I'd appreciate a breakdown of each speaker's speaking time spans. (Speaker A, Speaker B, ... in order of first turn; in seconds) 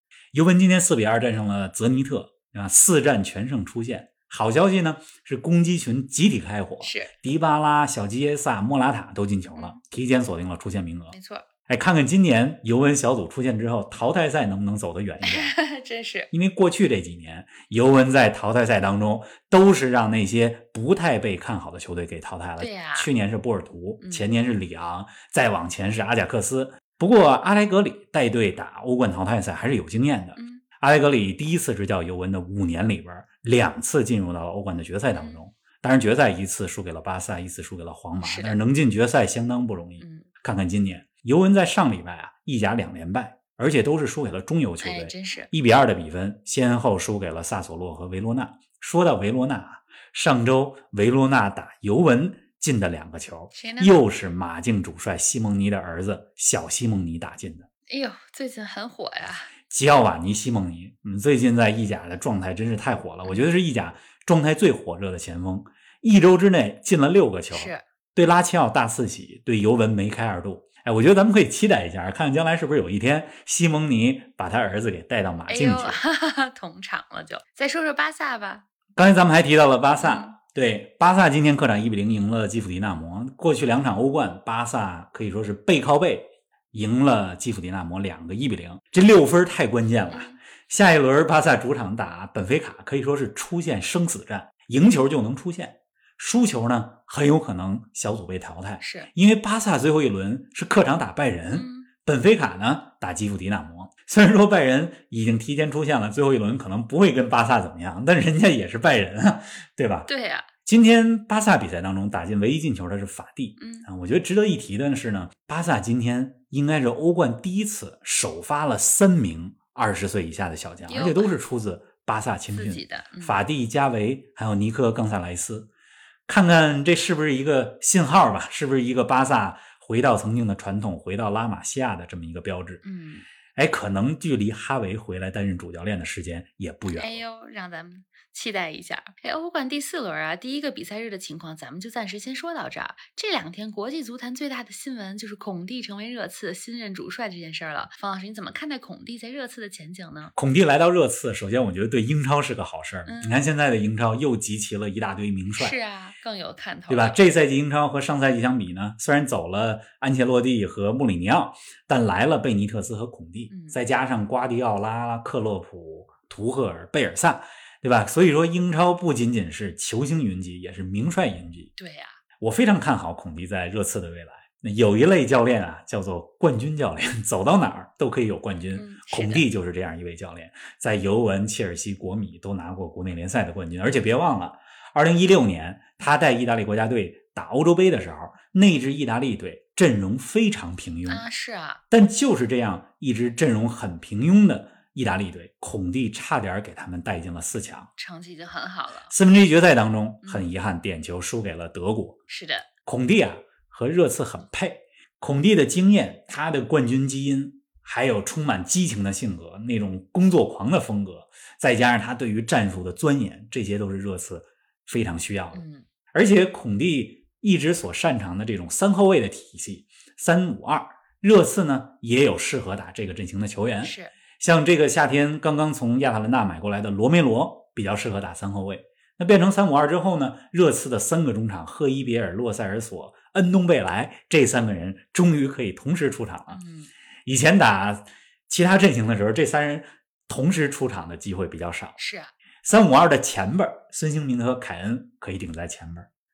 Speaker A: 0.3-11.2, 11.7-15.6, 16.3-57.7, 59.7-76.0, 79.0-110.1, 110.6-125.7, 126.3-132.8, 133.6-137.2, 150.4-155.8, 156.9-171.7, 172.4-191.2, 191.9-197.9, 199.1-202.2, 202.8-236.6, 237.2-242.0, 242.6-246.1
Speaker B: 6.8-7.1, 11.1-11.5, 15.2-16.3, 22.6-23.1, 24.0-24.3, 30.4-30.6, 38.2-38.6, 40.0-40.3, 44.8-45.5, 53.5-54.0, 57.9-59.5, 63.2-63.5, 67.5-67.8, 75.5-78.6, 80.0-80.3, 90.1-90.4, 98.8-99.1, 101.5-101.9, 110.1-110.5, 113.6-113.9, 120.9-121.4, 122.5-123.4, 132.8-133.3, 136.9-150.3, 153.1-153.4, 155.5-157.2, 163.5-163.8, 171.8-172.2, 178.7-179.4, 191.1-191.8, 198.0-199.1, 200.2-200.5, 202.3-202.7, 215.5-215.9, 223.8-224.2, 236.5-236.9, 242.0-242.3